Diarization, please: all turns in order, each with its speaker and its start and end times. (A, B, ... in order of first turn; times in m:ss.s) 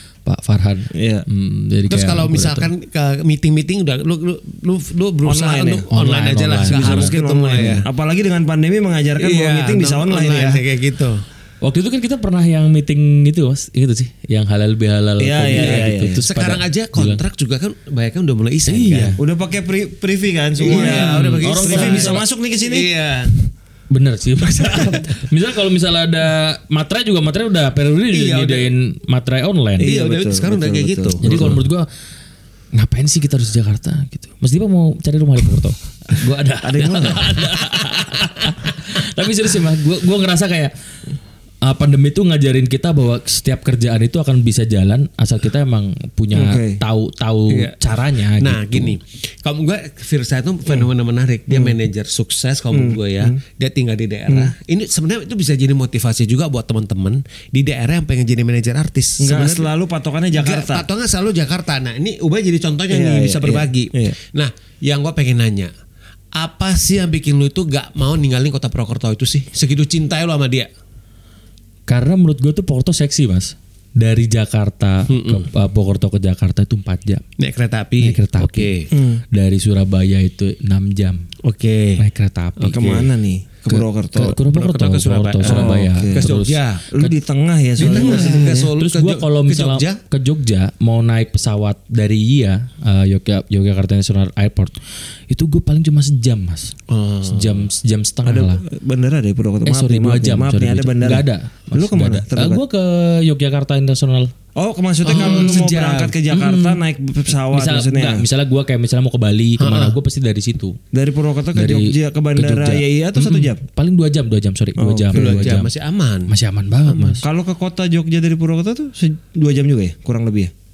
0:00.2-0:02.7 A
0:00.9-0:01.2 B
0:01.9-0:07.8 C
0:05.2-0:05.9 B
0:05.9-0:07.8 A
0:06.6-0:10.6 B
0:09.2-0:11.2 C
0:11.6-0:17.2 A
0:15.2-0:16.2 B
0:15.5-0:19.2 C
0:18.7-0:19.2 A
0:19.2-0:22.9 B
0:20.6-0:23.3 C
0:20.7-0:22.2 A
0:23.9-0:29.9 A
0:24.7-0:25.0 B
0:28.1-0:28.7 C
0:29.8-0:31.6 B
0:29.8-0:31.6 C
0:31.2-0:31.9 A
0:32.7-0:40.7 A
0:36.6-0:37.2 B
0:41.6-0:49.0 A
0:46.3-0:46.8 B
0:47.5-0:47.8 C
0:48.4-0:59.7 C
0:51.5-0:51.8 B
0:52.7-0:53.4 B
0:54.3-0:54.5 B
0:59.2-1:00.9 B
1:00.3-1:05.7 C
1:02.9-1:04.2 B
1:06.4-1:10.7 C
1:11.9-1:17.2 A
1:15.1-1:15.5 C
1:17.4-1:18.9 C
1:18.0-1:18.7 A
1:18.9-1:19.2 B
1:19.3-1:21.3 A
1:21.4-1:22.0 C
1:22.0-1:23.0 A
1:22.6-1:23.1 C
1:22.7-1:24.4 B
1:23.7-1:27.2 A
1:24.4-1:26.9 C
1:25.4-1:26.3 B
1:26.9-1:28.7 B
1:27.8-1:38.6 A
1:27.8-1:30.0 C
1:36.9-1:37.7 C
1:38.2-1:42.6 B
1:39.6-1:44.3 A
1:44.6-1:48.2 B
1:45.0-1:46.2 C
1:45.1-1:45.6 A
1:46.3-1:46.8 A
1:47.5-1:50.8 A
1:49.6-1:50.0 C
1:50.9-1:53.6 B
1:51.5-1:55.7 A
1:54.8-1:55.6 B
1:55.1-1:56.3 C
1:56.3-1:57.2 A
1:56.9-1:57.2 C
1:57.2-2:00.5 B